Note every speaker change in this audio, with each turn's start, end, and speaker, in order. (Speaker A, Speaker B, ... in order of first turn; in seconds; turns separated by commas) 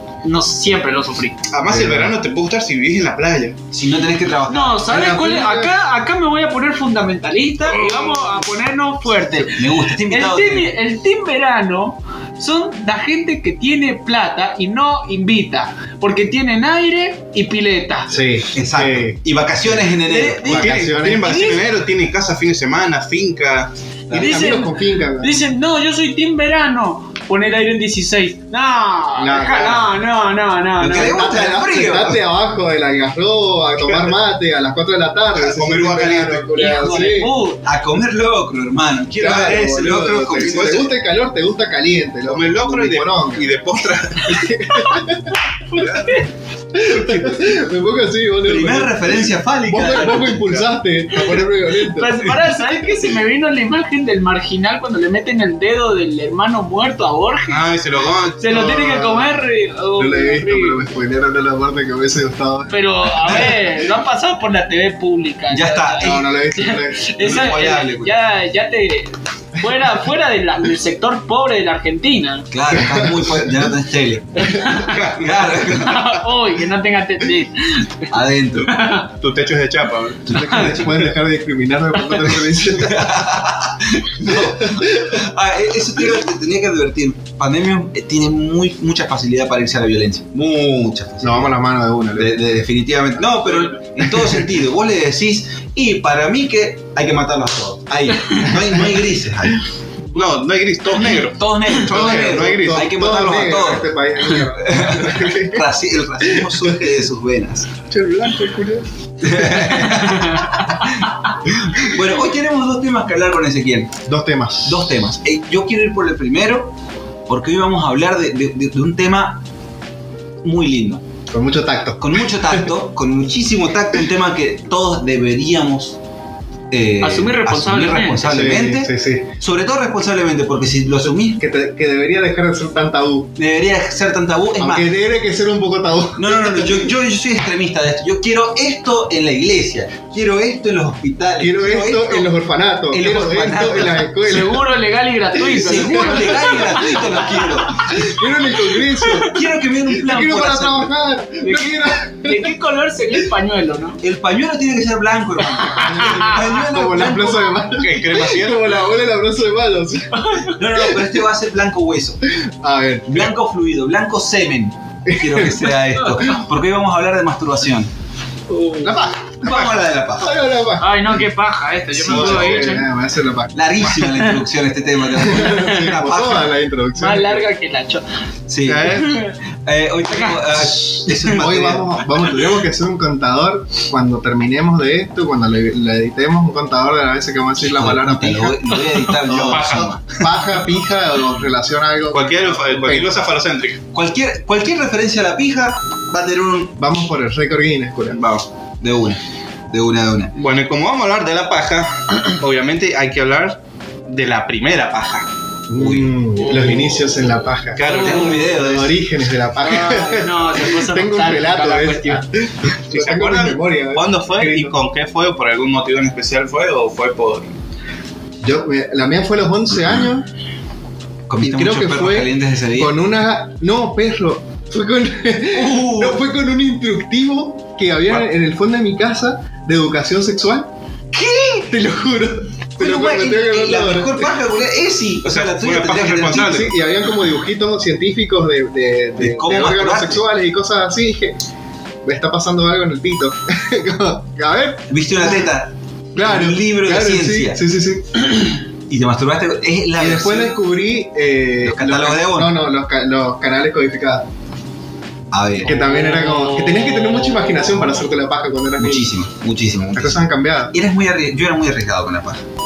Speaker A: 0.2-1.4, Speaker B: 1.5-3.6, Speaker C: 1.7-2.1, Speaker D: 3.7-4.9, Speaker A: 4.5-18.1, Speaker C: 4.9-5.7, Speaker B: 7.7-8.2, Speaker D: 9.5-10.7, Speaker C: 18.1-19.2, Speaker D: 18.5-20.7, Speaker A: 20.0-21.5, Speaker C: 20.4-21.6, Speaker B: 20.5-23.7, Speaker D: 24.1-24.4, Speaker A: 24.1-31.3, Speaker C: 24.1-25.3, Speaker C: 29.1-30.0, Speaker D: 30.8-32.2, Speaker C: 30.9-37.3, Speaker B: 35.3-36.7, Speaker A: 36.5-37.6, Speaker D: 37.6-40.9, Speaker C: 39.2-43.6, Speaker B: 40.4-40.9, Speaker B: 42.3-44.6, Speaker C: 44.2-45.2, Speaker A: 44.7-46.3, Speaker B: 45.8-46.2, Speaker C: 46.7-52.3, Speaker D: 48.4-50.6, Speaker A: 51.2-57.6, Speaker B: 57.5-58.7, Speaker A: 58.4-60.8, Speaker C: 58.5-59.3, Speaker C: 60.0-63.6, Speaker A: 62.7-72.5, Speaker D: 63.2-63.7, Speaker D: 65.5-66.3, Speaker C: 66.0-67.1, Speaker D: 67.2-68.2, Speaker D: 72.5-76.1, Speaker C: 72.7-73.3, Speaker A: 74.4-74.9, Speaker B: 74.8-76.0, Speaker A: 75.7-79.1, Speaker D: 78.1-78.8, Speaker B: 79.1-80.6, Speaker C: 80.3-83.1, Speaker D: 80.3-81.0, Speaker D: 82.6-91.5, Speaker C: 84.3-85.2, Speaker C: 91.2-92.4, Speaker D: 92.1-99.6, Speaker B: 100.1-102.9, Speaker D: 101.3-103.9, Speaker C: 101.9-105.6, Speaker D: 104.5-107.7, Speaker C: 106.2-106.7, Speaker B: 107.9-108.8, Speaker D: 109.2-111.0, Speaker B: 109.4-109.8, Speaker A: 109.9-111.1, Speaker D: 111.8-113.9, Speaker C: 114.1-114.9, Speaker D: 114.7-116.7, Speaker D: 117.3-119.4, Speaker D: 120.4-121.0, Speaker C: 121.3-122.7, Speaker D: 122.0-126.0, Speaker D: 126.7-131.4, Speaker A: 127.0-128.2, Speaker C: 128.2-129.3, Speaker C: 131.0-133.3, Speaker D: 133.4-134.8, Speaker C: 134.6-136.9, Speaker D: 136.2-142.3, Speaker C: 141.4-144.6, Speaker D: 142.9-144.4, Speaker A: 144.2-147.5, Speaker D: 145.5-148.1, Speaker C: 145.5-146.5, Speaker C: 147.8-152.5, Speaker D: 149.1-150.9, Speaker A: 151.4-154.0, Speaker D: 154.0-157.6, Speaker A: 155.7-156.3, Speaker C: 155.7-160.4, Speaker B: 157.7-158.7, Speaker A: 160.1-160.6, Speaker D: 160.5-162.2, Speaker C: 162.6-163.3, Speaker D: 163.1-167.9, Speaker C: 165.1-165.7, Speaker A: 166.1-166.4, Speaker A: 168.5-168.9, Speaker C: 168.8-169.6, Speaker D: 169.4-170.4, Speaker B: 169.4-169.7, Speaker C: 170.2-171.2, Speaker A: 170.8-172.9, Speaker C: 171.9-173.5, Speaker D: 172.1-172.7, Speaker D: 173.5-176.5, Speaker B: 173.8-174.3, Speaker C: 175.1-177.5, Speaker A: 175.5-175.8, Speaker A: 177.0-178.0, Speaker D: 178.5-182.0, Speaker B: 178.6-179.2, Speaker A: 179.0-179.3, Speaker A: 180.1-181.3, Speaker C: 181.2-188.6, Speaker D: 187.7-190.2, Speaker B: 189.2-190.0, Speaker C: 190.1-193.1, Speaker B: 192.1-193.8, Speaker D: 193.9-196.7, Speaker C: 196.8-198.2, Speaker B: 198.1-198.4, Speaker D: 198.8-199.2, Speaker D: 199.7-200.3, Speaker B: 200.3-205.3, Speaker C: 205.7-214.7, Speaker D: 205.8-206.8, Speaker B: 206.4-208.5, Speaker D: 207.8-209.0, Speaker A: 209.6-212.2, Speaker B: 212.9-217.5, Speaker C: 218.4-220.3, Speaker D: 221.3-223.0, Speaker C: 221.4-230.7, Speaker D: 225.5-226.2, Speaker D: 231.1-231.7, Speaker C: 231.7-234.3, Speaker D: 232.8-236.7, Speaker B: 235.2-236.7, Speaker C: 236.3-241.4, Speaker D: 239.2-240.2, Speaker C: 242.0-245.5, Speaker D: 244.9-247.6, Speaker C: 246.1-248.2, Speaker D: 248.9-250.6, Speaker C: 249.9-254.3, Speaker D: 251.6-252.6, Speaker D: 255.3-255.8, Speaker C: 255.6-259.1, Speaker A: 255.6-258.0, Speaker D: 258.8-262.4, Speaker C: 259.9-260.7